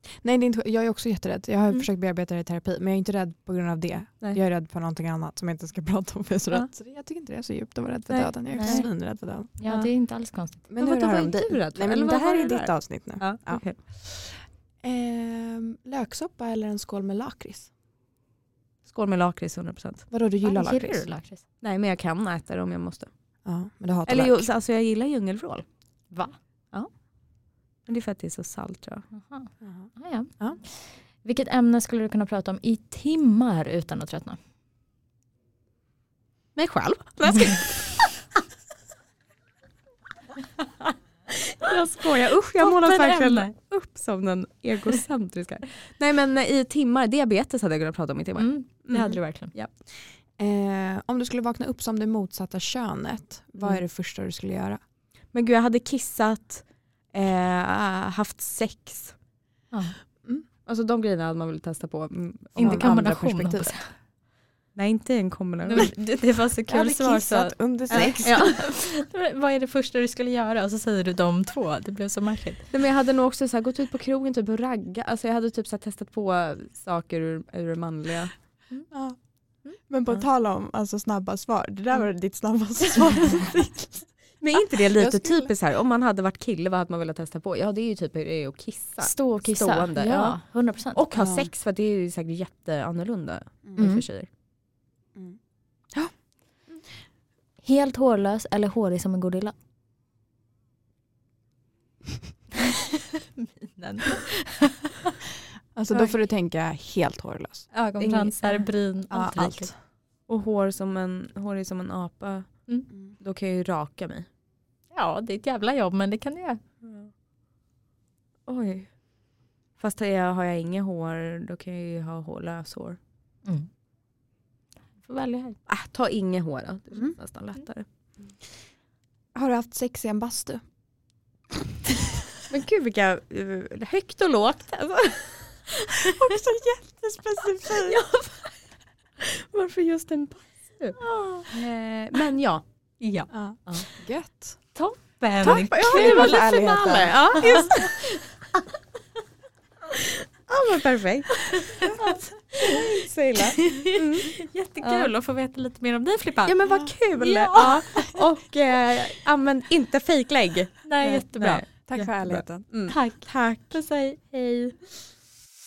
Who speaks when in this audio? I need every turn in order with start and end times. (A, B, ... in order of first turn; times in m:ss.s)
0:00.2-0:09.6 A
0:08.1-0:08.9 B
0:08.5-0:08.9 C
0:09.6-0:10.6 C
0:09.6-0:09.9 B
0:10.7-0:17.7 A
0:10.8-0:13.8 B
0:18.9-0:20.1 B
0:20.1-0:21.1 A
0:20.4-0:21.4 C
0:21.6-0:23.1 B
0:23.4-0:24.5 A
0:24.0-0:25.6 B
0:26.1-0:26.4 C
0:27.9-0:29.0 B
0:29.1-0:34.4 C
0:29.6-0:30.6 A
0:36.5-0:38.2 B
0:41.6-0:49.7 B
0:42.6-0:43.5 C
0:48.4-0:49.5 C
0:50.4-0:54.8 A
0:55.3-0:59.1 B
0:59.7-1:00.0 C
1:00.6-1:03.8 B
1:02.6-1:03.9 C
1:02.6-1:02.9 A
1:04.7-1:05.9 B
1:05.6-1:12.7 C
1:06.7-1:08.6 A
1:07.9-1:08.6 B
1:12.7-1:18.3 B
1:18.9-1:19.2 A
1:19.9-1:24.1 A
1:24.4-1:30.4 B
1:24.8-1:25.5 A
1:29.0-1:31.0 C
1:30.9-1:34.3 B
1:31.1-1:31.5 A
1:33.6-1:34.0 A
1:37.6-1:39.5 C
1:43.4-1:45.1 C
1:45.7-1:47.7 A
1:47.7-1:49.7 C
1:48.0-1:48.6 B
1:49.1-1:49.7 A
1:50.3-1:52.6 B
1:53.2-1:54.2 B
1:54.9-1:56.6 C
1:56.8-1:57.1 B
1:58.5-1:58.9 B
1:59.8-2:03.0 B
2:05.0-2:05.6 C
2:05.7-2:07.8 B
2:09.3-2:10.6 A
2:12.5-2:15.6 B
2:16.0-2:18.0 A
2:17.9-2:18.4 B
2:19.2-2:22.6 B
2:21.0-2:21.5 C
2:23.0-2:23.3 C
2:23.3-2:24.6 A
2:24.7-2:28.1 C
2:25.4-2:27.8 A
2:25.8-2:28.1 B
2:30.5-2:35.1 B
2:31.7-2:32.1 C
2:31.8-2:32.2 A
2:33.6-2:36.6 C
2:36.4-2:44.8 B
2:37.1-2:38.2 C
2:40.8-2:42.0 C
2:41.8-2:42.7 A
2:42.9-2:43.3 C